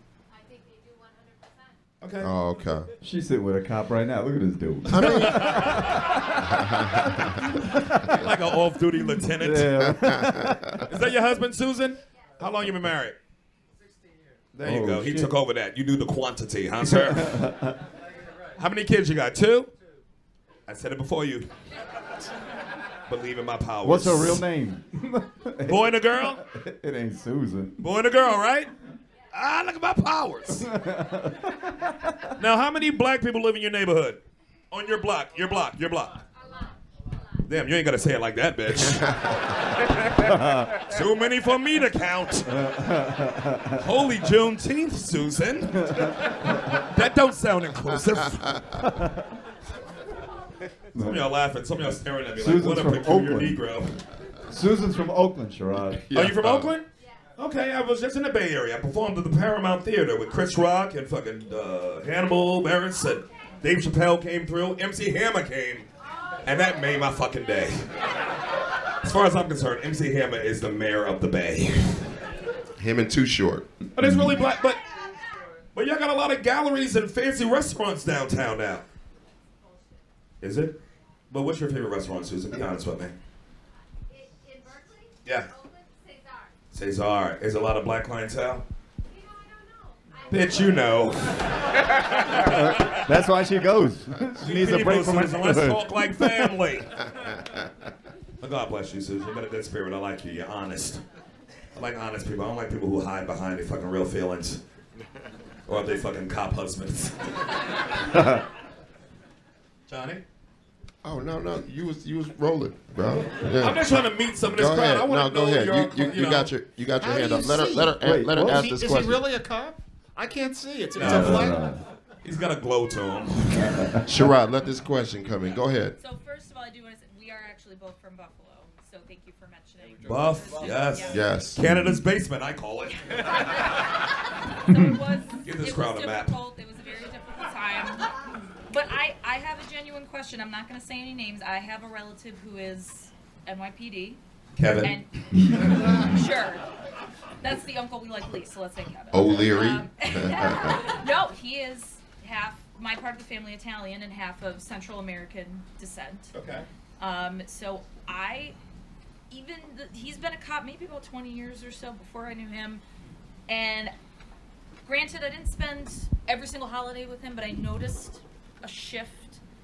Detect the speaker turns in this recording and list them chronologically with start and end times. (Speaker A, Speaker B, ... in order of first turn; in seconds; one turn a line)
Speaker A: 0.3-1.6
Speaker B: 2.0-2.3
Speaker C: 2.2-2.9
Speaker D: 3.0-6.4
Speaker C: 4.9-5.9
Speaker B: 4.9-6.0
Speaker C: 6.6-7.2
Speaker D: 7.1-8.2
Speaker B: 8.2-9.7
Speaker D: 9.3-10.9
Speaker C: 9.8-10.8
Speaker B: 10.9-13.2
Speaker B: 14.5-17.5
Speaker D: 14.6-15.3
Speaker D: 16.8-17.8
Speaker B: 18.6-19.7
Speaker B: 20.7-21.5
Speaker B: 23.1-24.4
Speaker D: 23.8-27.8
Speaker B: 25.6-26.4
Speaker B: 27.8-28.7
Speaker B: 29.3-30.7
Speaker D: 30.6-32.1
Speaker B: 32.4-36.2
Speaker B: 37.4-39.2
Speaker D: 40.2-40.7
Speaker B: 40.8-42.5
Speaker D: 42.5-43.8
Speaker B: 43.8-48.6
Speaker D: 45.7-46.8
Speaker D: 50.9-51.3
Speaker B: 51.0-54.0
Speaker D: 52.3-53.7
Speaker D: 54.4-56.1
Speaker C: 56.1-56.7
Speaker B: 56.1-65.9
Speaker B: 66.4-67.9
Speaker B: 69.0-72.1
Speaker C: 72.8-73.7
Speaker B: 74.0-74.8
Speaker D: 74.0-74.4
Speaker B: 75.7-78.8
Speaker B: 80.4-80.8
Speaker B: 81.3-83.2
Speaker A: 84.1-86.5
Speaker B: 85.2-85.5
Speaker B: 86.7-88.7
Speaker A: 89.1-91.1
Speaker B: 90.3-93.0
Speaker D: 92.4-96.5
Speaker B: 94.4-97.0
Speaker B: 98.4-101.0
Speaker B: 101.7-104.6
Speaker B: 105.7-107.4
Speaker B: 109.9-110.2
Speaker C: 111.0-119.2
Speaker B: 113.6-116.5
Speaker E: 117.0-121.6
Speaker D: 118.0-118.7
Speaker B: 121.0-121.5
Speaker D: 121.0-121.8
Speaker B: 122.2-123.9
Speaker D: 123.6-124.1
Speaker C: 124.0-126.0
Speaker F: 126.0-131.4
Speaker B: 130.0-133.4
Speaker C: 131.1-131.6
Speaker D: 131.6-132.0
Speaker F: 134.6-138.1
Speaker B: 135.4-136.3
Speaker F: 138.7-144.2
Speaker B: 144.6-144.9
Speaker F: 144.8-146.6
Speaker D: 145.3-146.2
Speaker F: 147.4-156.3
Speaker C: 149.1-150.9
Speaker B: 156.3-156.6
Speaker F: 157.0-158.6
Speaker F: 159.3-162.8
Speaker F: 163.5-163.9
Speaker F: 164.8-169.4